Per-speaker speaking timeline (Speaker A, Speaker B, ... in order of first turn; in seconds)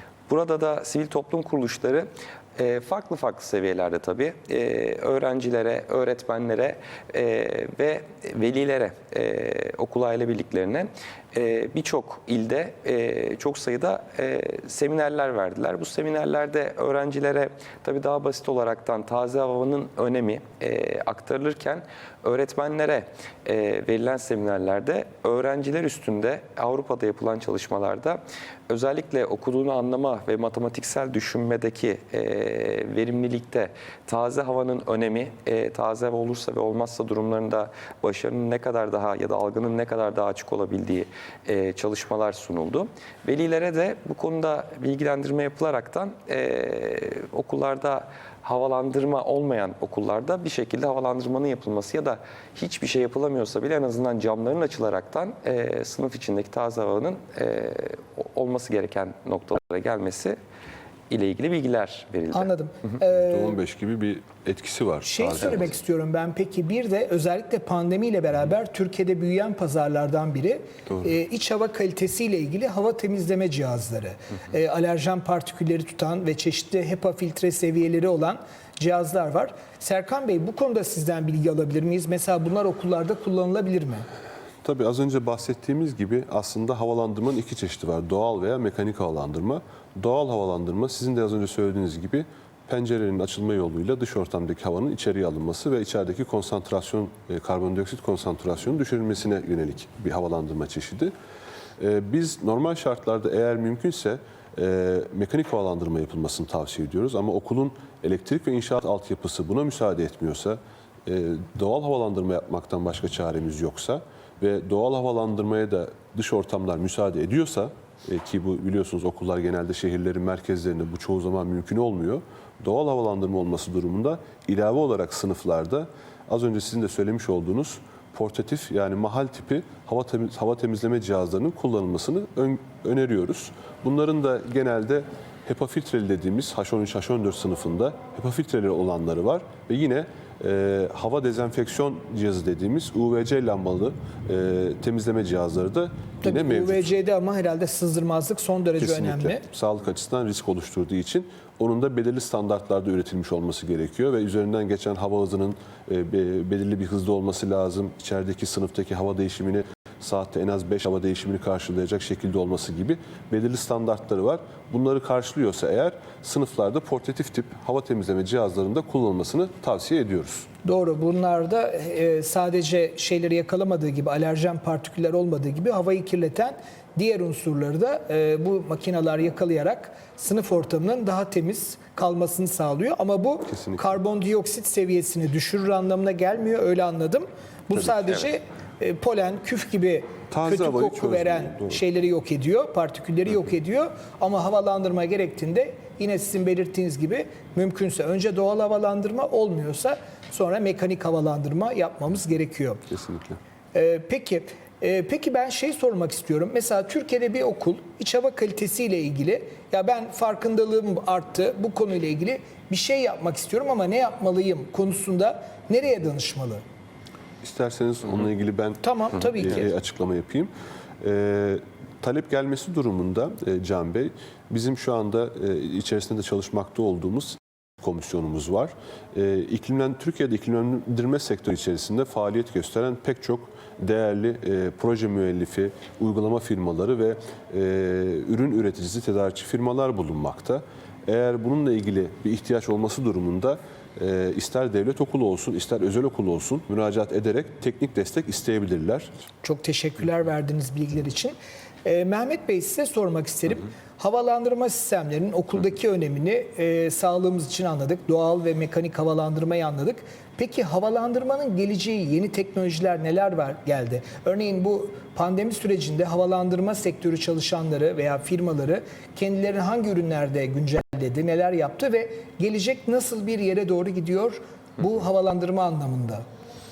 Speaker A: 0.3-60.4, 61.1-62.5
Speaker B: 62.3-63.6, 65.0-84.1, 146.2-149.4, 170.6-202.8, 203.7-216.6, 218.8-219.7, 249.4-276.2
Speaker C: 63.2-65.7, 84.6-101.1, 101.8-146.9, 148.8-170.5, 183.5-183.8, 190.3-191.8, 202.9-203.4, 217.4-249.1